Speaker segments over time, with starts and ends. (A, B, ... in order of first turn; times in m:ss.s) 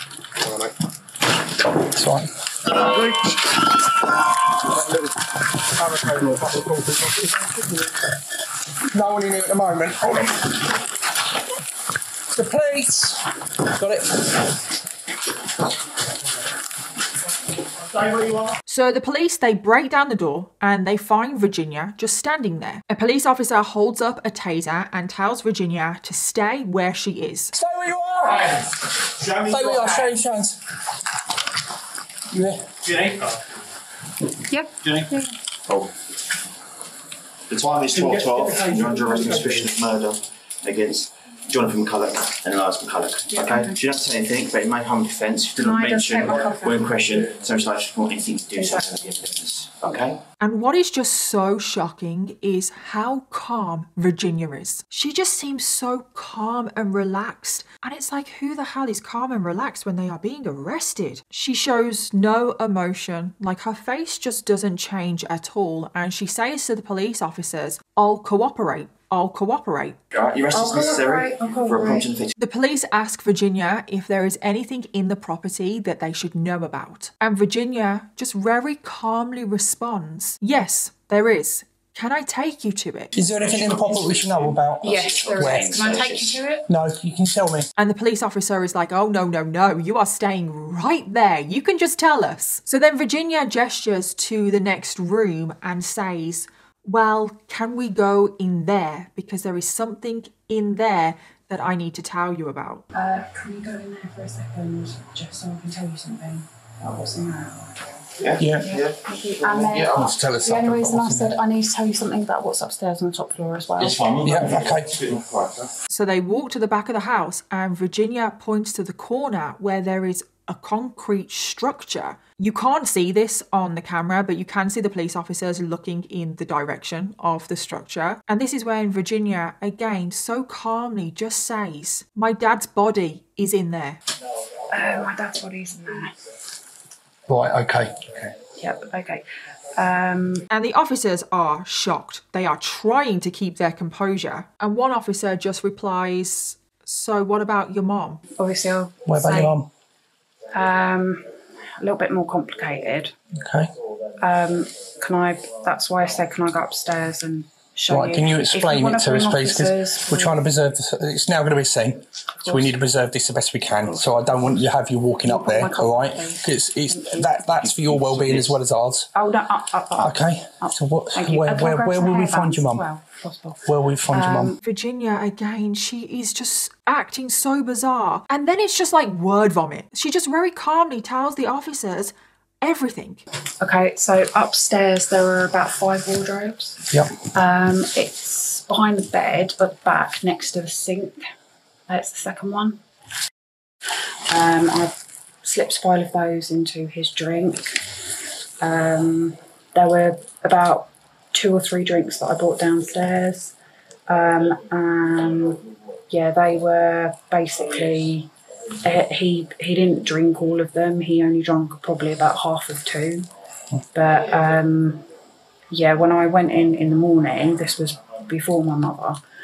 0:00.4-0:00.7 A
0:01.8-0:03.4 A
0:04.7-0:05.1 A
0:05.8-0:07.7 A
0:08.9-0:10.5 A
0:12.3-0:13.2 A
0:13.8-0:14.4 A
0:18.0-0:18.5 A
0:18.7-0:27.5 B
0:27.5-0:30.6 A
0:29.2-0:30.1 C
0:32.3-0:32.8 A
0:32.8-0:33.3 C
0:34.5-0:35.4 D
0:34.8-0:35.1 C
0:35.6-0:35.9 C
0:37.5-0:50.2 C
0:43.3-0:43.7 D
0:45.6-0:47.3 D
0:48.6-0:48.8 D
0:50.4-1:10.0 B
1:10.1-1:12.4 C
1:10.5-1:12.1 D
1:12.4-1:23.1 B
1:23.1-1:26.0 A
1:23.4-1:26.4 C
1:24.8-1:26.6 D
1:26.7-1:27.7 A
1:27.8-1:42.9 B
1:42.9-1:47.8 D
1:48.2-1:50.1 C
1:48.4-1:48.7 A
1:48.6-1:54.1 D
1:49.9-1:51.4 A
1:53.8-1:55.7 C
1:54.2-1:55.0 A
1:55.9-2:14.0 B
2:14.7-2:16.2 D
2:17.3-2:18.3 A
2:18.6-2:19.2 D
2:19.8-2:20.4 D
2:20.5-2:28.2 B
2:28.4-2:29.6 D
2:29.1-2:29.7 A
2:30.5-2:33.1 D
2:33.4-2:33.7 A
2:34.2-2:40.4 D
2:37.9-2:49.1 A
2:44.0-2:44.3 D
2:45.2-2:47.6 D
2:47.6-2:48.5 C
2:49.1-2:54.6 D
2:50.0-2:52.8 A
2:53.7-2:54.6 A
2:54.6-3:03.2 B
3:03.6-3:11.3 D
3:11.9-3:12.8 D
3:14.3-3:17.9 D
3:18.6-3:23.6 D
3:24.1-3:28.3 D
3:28.8-3:33.3 D
3:33.9-3:35.0 D
3:35.7-3:39.2 D